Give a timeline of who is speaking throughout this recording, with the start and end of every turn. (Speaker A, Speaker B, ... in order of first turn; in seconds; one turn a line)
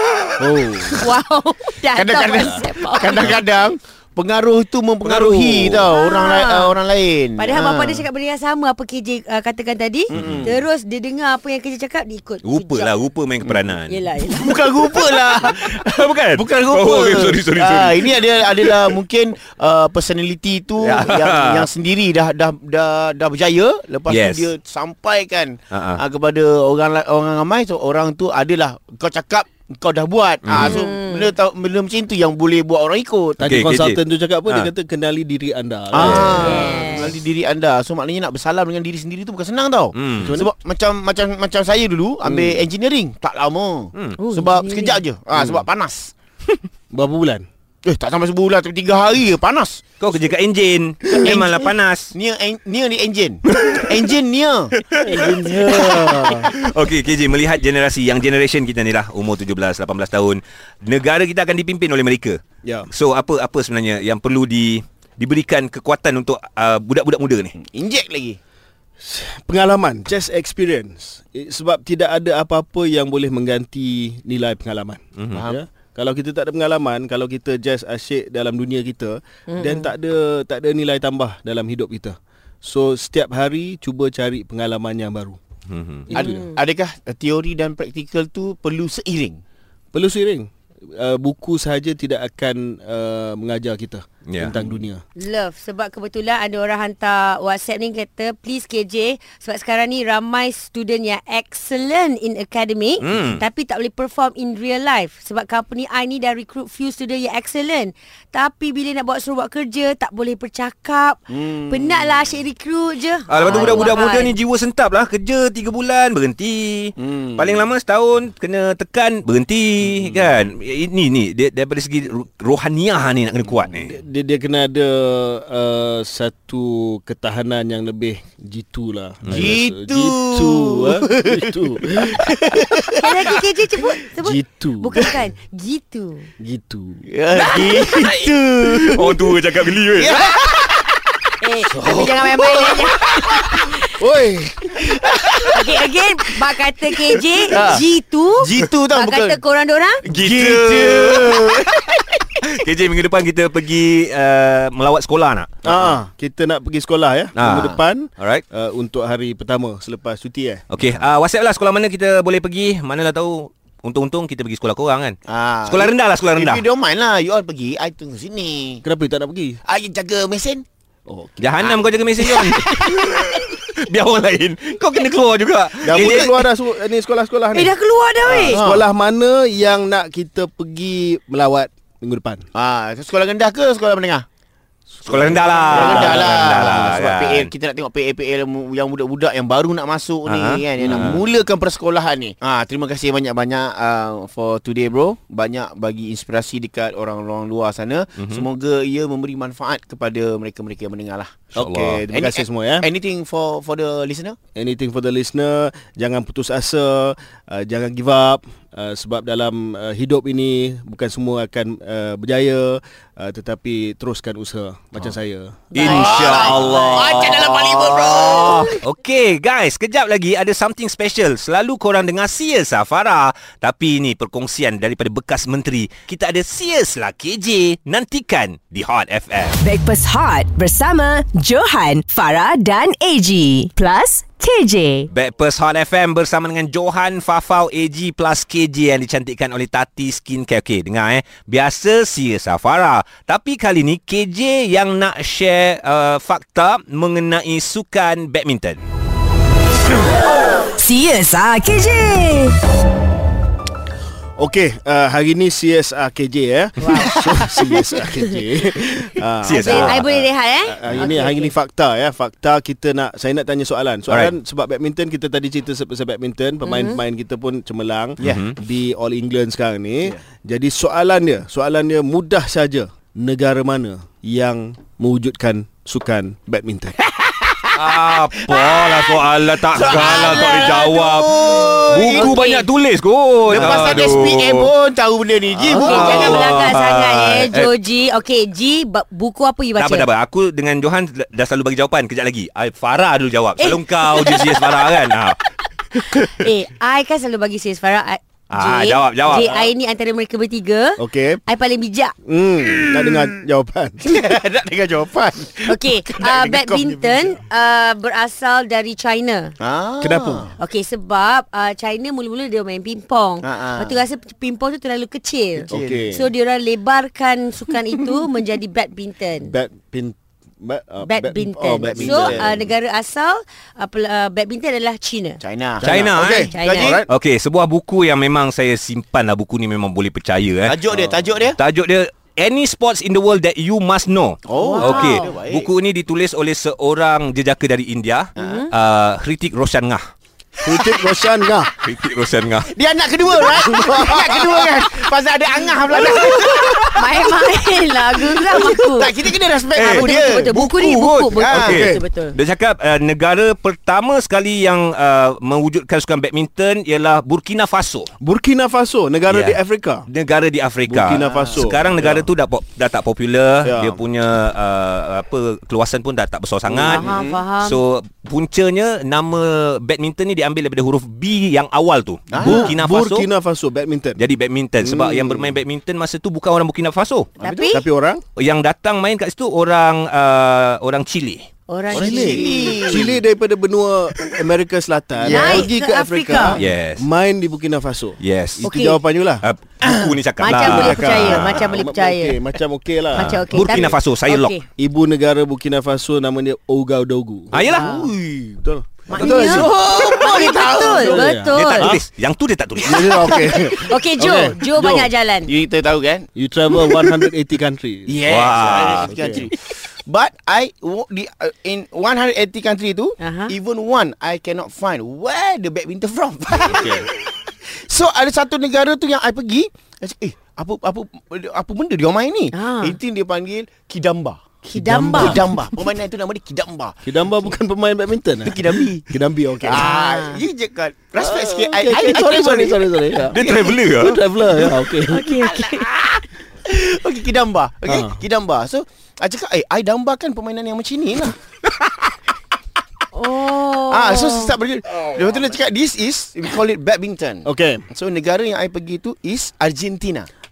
Speaker A: 0.4-1.0
Speaker B: 1.0-3.4
Speaker C: 1.9-8.1
Speaker D: 5.0-5.9
Speaker B: 5.9-6.7
Speaker B: 7.4-12.9
Speaker C: 10.1-10.6
Speaker D: 10.1-10.5
Speaker D: 12.4-14.0
Speaker B: 13.9-14.6
Speaker C: 14.3-33.5
Speaker D: 14.9-18.9
Speaker D: 20.8-21.7
Speaker D: 24.1-24.5
Speaker D: 25.7-26.0
Speaker D: 30.4-30.8
Speaker B: 30.6-31.3
Speaker A: 33.4-36.9
Speaker D: 33.5-34.7
Speaker C: 35.9-46.1
Speaker D: 36.0-36.4
Speaker B: 36.0-37.1
Speaker D: 39.9-40.3
Speaker A: 40.2-40.5
Speaker A: 42.2-42.6
Speaker B: 44.2-45.0
Speaker A: 45.3-45.6
Speaker A: 46.9-47.5
Speaker C: 47.8-49.8
Speaker D: 50.0-52.1
Speaker C: 51.1-54.7
Speaker D: 53.5-54.0
Speaker D: 54.8-62.4
Speaker A: 55.0-56.5
Speaker A: 62.6-62.9
Speaker D: 62.9-67.5
Speaker C: 67.6-68.4
Speaker A: 69.0-85.4
Speaker D: 75.2-75.4
Speaker C: 75.3-75.6
Speaker B: 79.5-79.9
Speaker D: 85.7-86.0
Speaker A: 86.0-86.4
Speaker B: 86.1-86.5
Speaker C: 86.1-89.4
Speaker A: 89.9-95.0
Speaker D: 94.3-94.5
Speaker B: 95.2-114.3
Speaker D: 103.0-103.4
Speaker C: 111.3-112.3
Speaker D: 113.3-123.9
Speaker C: 113.4-114.0
Speaker C: 117.0-117.6
Speaker A: 123.8-132.8
Speaker D: 129.2-129.5
Speaker C: 129.3-133.4
Speaker B: 133.0-136.3
Speaker A: 134.2-135.2
Speaker A: 136.4-137.0
Speaker C: 137.1-139.4
Speaker B: 137.4-137.7
Speaker D: 137.8-140.4
Speaker C: 139.9-141.0
Speaker B: 141.4-143.8
Speaker C: 141.8-143.4
Speaker A: 141.8-142.1
Speaker A: 143.9-145.0
Speaker C: 144.8-145.5
Speaker B: 145.5-150.0
Speaker C: 147.5-147.8
Speaker C: 148.4-149.4
Speaker D: 150.1-151.7
Speaker C: 150.1-152.0
Speaker D: 152.4-155.5
Speaker A: 155.6-160.6
Speaker C: 155.7-155.9
Speaker D: 157.3-158.4
Speaker D: 160.7-165.2
Speaker C: 165.3-168.8
Speaker D: 165.7-166.6
Speaker A: 168.8-169.6
Speaker C: 169.7-170.6
Speaker A: 171.1-171.7
Speaker D: 171.4-176.4
Speaker C: 172.2-173.4
Speaker A: 175.8-182.4
Speaker C: 175.9-176.2
Speaker B: 177.5-178.6
Speaker C: 178.5-178.8
Speaker C: 182.5-184.2
Speaker A: 184.9-187.0
Speaker D: 185.0-187.5
Speaker C: 185.1-204.4
Speaker D: 190.3-191.2
Speaker A: 190.8-191.2
Speaker D: 198.2-198.4
Speaker A: 201.5-202.9
Speaker A: 204.5-215.6
Speaker B: 215.7-217.3
Speaker D: 215.7-229.5
Speaker C: 215.8-218.8
Speaker E: 229.6-235.1
Speaker D: 235.1-248.8
Speaker E: 250.8-252.5
Speaker A: 254.4-260.0
Speaker B: 256.8-257.8
Speaker D: 259.4-260.2
Speaker B: 259.5-261.5
Speaker A: 260.7-277.0
Speaker D: 264.1-264.3
Speaker B: 266.6-267.0
Speaker D: 268.2-268.6
Speaker C: 277.1-282.3
Speaker D: 277.7-284.7
Speaker B: 282.1-282.6
Speaker C: 283.5-286.4
Speaker A: 283.6-283.8
Speaker D: 285.6-287.7
Speaker B: 285.8-290.1
Speaker D: 289.8-295.4
Speaker D: 295.9-296.4
Speaker B: 296.3-302.1
Speaker D: 298.5-299.7
Speaker A: 301.0-301.4
Speaker A: 302.2-304.0
Speaker C: 302.7-303.3
Speaker C: 304.0-307.3
Speaker B: 305.7-309.5
Speaker C: 309.6-310.5
Speaker A: 310.0-310.5
Speaker B: 310.6-319.5
Speaker C: 313.4-314.0
Speaker A: 315.7-316.3
Speaker C: 315.7-316.1
Speaker A: 319.4-322.6
Speaker B: 321.0-325.4
Speaker C: 321.8-322.5
Speaker C: 325.4-327.0
Speaker A: 325.8-327.1
Speaker D: 325.8-330.8
Speaker B: 326.5-326.9
Speaker C: 330.7-331.6
Speaker A: 330.9-331.2
Speaker D: 331.6-340.1
Speaker C: 334.4-335.7
Speaker B: 334.6-335.3
Speaker C: 338.4-338.7
Speaker B: 338.4-338.7
Speaker A: 340.6-341.7
Speaker D: 341.8-342.7
Speaker C: 342.7-347.0
Speaker A: 343.5-344.5
Speaker B: 345.9-349.1
Speaker C: 348.9-350.5
Speaker D: 349.8-358.1
Speaker B: 349.8-352.4
Speaker C: 351.4-351.9
Speaker A: 351.5-352.0
Speaker A: 358.2-360.1
Speaker D: 359.3-359.6
Speaker D: 360.1-367.1
Speaker A: 360.9-362.3
Speaker C: 361.1-361.6
Speaker A: 363.6-364.0
Speaker A: 366.7-367.0
Speaker B: 366.8-367.8
Speaker C: 367.0-367.4
Speaker D: 367.6-373.3
Speaker C: 372.3-372.6
Speaker A: 372.4-374.2
Speaker D: 374.2-377.3
Speaker A: 374.8-375.6
Speaker B: 377.4-377.8
Speaker A: 377.7-378.2
Speaker D: 378.4-381.5
Speaker B: 381.7-382.8
Speaker C: 381.9-383.2
Speaker A: 381.9-389.4
Speaker C: 385.2-385.7
Speaker B: 385.3-386.6
Speaker D: 386.6-387.1
Speaker D: 388.2-388.6
Speaker B: 388.6-389.0
Speaker D: 389.4-391.6
Speaker B: 390.4-392.4
Speaker A: 390.5-393.9
Speaker B: 393.1-394.6
Speaker D: 393.2-394.5
Speaker A: 394.8-397.6
Speaker D: 397.5-398.0
Speaker C: 397.6-398.6
Speaker B: 397.7-398.1
Speaker A: 398.6-399.8
Speaker B: 399.1-401.9
Speaker C: 399.1-401.2
Speaker A: 400.8-402.0
Speaker D: 401.5-403.4
Speaker A: 402.8-405.1
Speaker B: 403.7-405.5
Speaker C: 405.4-406.3
Speaker A: 406.3-409.5
Speaker C: 408.1-424.4
Speaker D: 408.3-409.1
Speaker B: 413.2-413.5
Speaker A: 416.7-417.0
Speaker B: 422.5-422.9
Speaker B: 424.6-425.4
Speaker A: 424.7-425.5
Speaker C: 425.1-427.5
Speaker A: 427.0-429.9
Speaker C: 428.4-429.1
Speaker C: 429.6-433.8
Speaker B: 429.7-430.4
Speaker A: 431.2-435.3
Speaker D: 433.3-434.2
Speaker B: 435.1-435.9
Speaker C: 435.3-441.9
Speaker A: 437.9-438.2
Speaker B: 443.1-444.5
Speaker C: 443.9-450.3
Speaker A: 447.4-447.8